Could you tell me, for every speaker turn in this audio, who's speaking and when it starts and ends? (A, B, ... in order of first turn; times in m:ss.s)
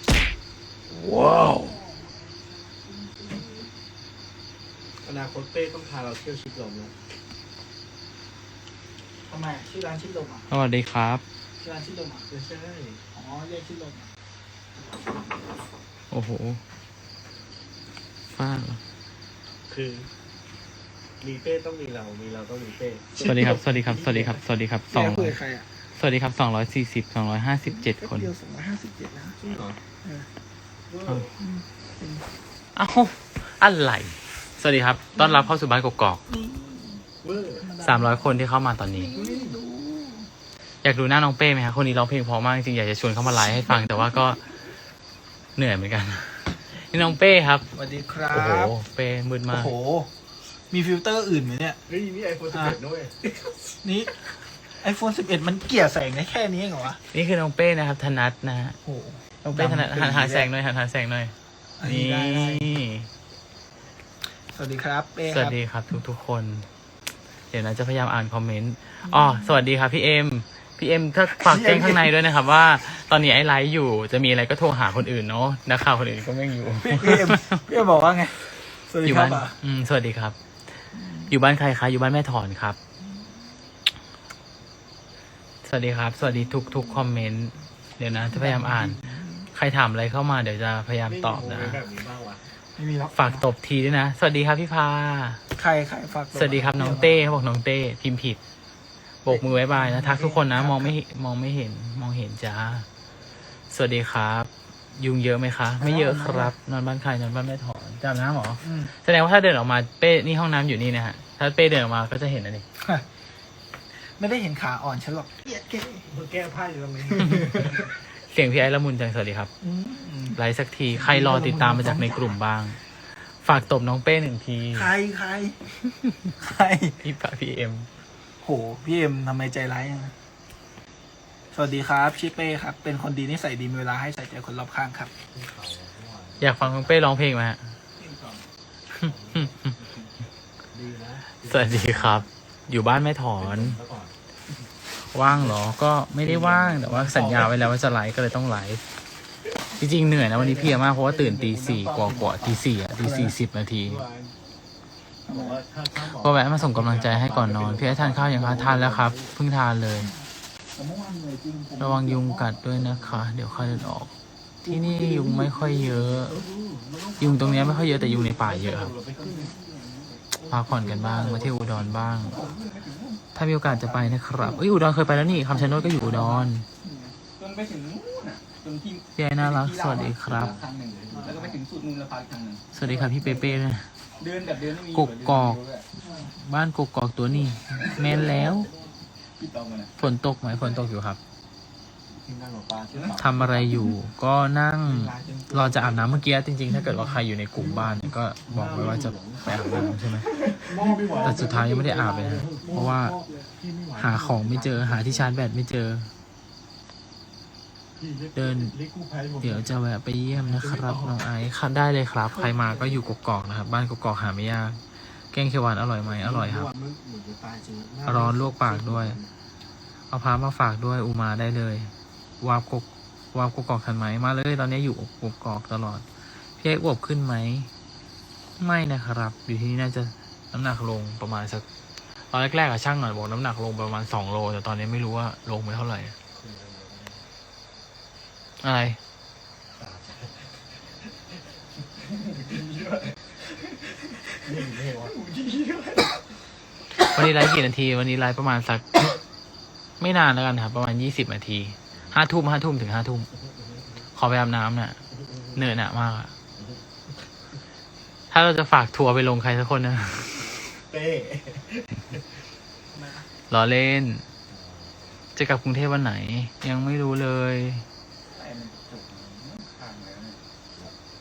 0:00.9-0:01.8 A
0:02.9-0:03.6 B
0:05.0-0:06.9 C
0:09.3-0:10.5 B
0:10.5-0:11.2 A
0:11.6-0:12.3 B
0:12.3-0:13.0 C
0:13.1-0:14.1 B
0:16.1-0:16.6 A
0:18.3-0:18.8 A
0:19.7-0:20.1 C
0:21.2-0:24.4 C
0:23.2-0:25.4 A
0:24.9-0:25.7 B
0:25.9-0:28.3 A
0:27.7-0:29.5 B
0:29.4-0:29.8 C
0:30.9-0:31.4 C
0:31.4-0:32.2 B
0:32.7-0:36.2 A
0:36.3-0:37.0 B
0:37.2-0:37.7 C
0:37.6-0:38.3 B
0:37.8-0:39.1 A
0:39.0-0:40.3 B
0:39.2-0:39.6 C
0:40.8-0:44.5 A
0:45.6-0:47.7 A
0:47.7-0:48.8 B
0:48.3-0:49.7 A
0:49.5-0:50.1 B
0:50.7-0:51.8 B
0:51.9-0:53.8 C
0:53.8-0:54.2 B
0:54.8-0:57.0 B
0:57.1-0:58.8 A
0:58.8-1:00.5 B
0:59.4-1:03.1 A
1:01.8-1:02.8 B
1:04.5-1:05.6 B
1:05.3-1:06.7 A
1:07.5-1:17.6 A
1:09.1-1:09.4 B
1:11.3-1:12.1 B
1:16.8-1:19.6 B
1:19.0-1:20.4 A
1:21.0-1:21.3 B
1:21.3-1:22.8 A
1:25.6-1:29.0 A
1:28.2-1:29.5 B
1:29.5-1:31.8 A
1:31.1-1:32.5 C
1:32.8-1:33.5 B
1:33.1-1:35.4 A
1:35.5-1:37.2 B
1:36.3-1:38.4 A
1:39.2-1:42.9 A
1:39.3-1:41.0 B
1:43.7-1:52.6 A
1:45.8-1:46.5 B
1:48.6-1:48.9 B
1:54.1-1:56.2 B
1:56.1-1:57.8 C
1:57.1-1:57.8 B
1:57.2-1:57.6 A
1:58.3-1:59.5 A
1:59.6-2:00.4 B
2:00.4-2:02.8 A
2:00.9-2:02.4 B
2:03.4-2:04.9 A
2:03.5-2:03.8 C
2:04.7-2:05.6 B
2:05.8-2:06.3 A
2:06.4-2:07.0 B
2:07.0-2:07.9 A
2:08.4-2:10.1 B
2:11.5-2:15.1 B
2:15.3-2:17.1 C
2:16.4-2:17.7 A
2:18.0-2:18.4 D
2:18.9-2:19.7 A
2:19.0-2:19.7 C
2:20.7-2:22.3 C
2:21.5-2:23.8 A
2:23.4-2:24.2 C
2:25.1-2:28.9 A
2:25.3-2:25.6 C
2:26.2-2:27.8 C
2:29.8-2:34.0 A
2:30.0-2:32.7 C
2:33.0-2:33.3 B
2:33.8-2:34.4 C
2:35.3-2:39.4 C
2:36.0-2:40.1 A
2:40.7-2:42.6 D
2:41.8-2:44.1 A
2:44.6-2:46.1 B
2:44.7-2:46.4 A
2:46.2-2:49.5 C
2:47.2-2:48.9 A
2:49.2-2:50.3 D
2:50.3-2:52.6 C
2:50.5-2:52.4 A
2:52.2-3:03.6 D
2:53.3-2:56.7 A
2:54.6-2:56.3 C
2:59.2-3:00.6 A
3:00.2-3:01.6 C
3:02.7-3:03.9 A
3:04.2-3:05.8 D
3:04.9-3:05.6 A
3:06.0-3:06.3 B
3:06.3-3:08.7 A
3:07.7-3:09.9 D
3:08.0-3:08.9 C
3:10.0-3:11.2 A
3:12.1-3:13.8 C
3:12.9-3:13.7 D
3:13.2-3:20.3 A
3:14.9-3:16.2 C
3:15.0-3:16.2 D
3:16.7-3:17.1 B
3:17.5-3:19.9 C
3:20.2-3:21.8 D
3:20.6-3:23.0 C
3:20.7-3:21.6 B
3:21.2-3:23.2 A
3:22.6-3:23.5 B
3:22.6-3:23.0 D
3:23.5-3:25.5 C
3:24.0-3:26.1 A
3:28.0-3:29.8 C
3:28.4-3:28.8 A
3:29.4-3:36.7 A
3:30.3-3:31.3 C
3:36.0-3:39.3 C
3:38.0-3:39.2 A
3:40.1-3:46.0 A
3:46.6-3:47.7 A
3:48.6-3:51.7 A
3:52.3-3:56.2 A
3:56.4-3:57.3 C
3:58.6-3:59.0 A
3:59.7-4:01.4 C
4:02.1-4:04.5 D
4:02.3-4:02.6 C
4:04.4-4:05.2 C
4:05.0-4:06.4 D
4:07.0-4:09.0 A
4:10.0-4:13.3 A
4:13.3-4:14.1 C
4:14.2-4:15.0 A
4:15.1-4:15.8 C
4:15.6-4:16.3 A
4:16.6-4:17.2 C
4:18.3-4:20.6 A
4:20.7-4:22.5 C
4:22.9-4:23.3 D
4:23.5-4:24.2 A
4:24.5-4:25.2 C
4:25.4-4:27.8 A
4:28.3-4:30.4 D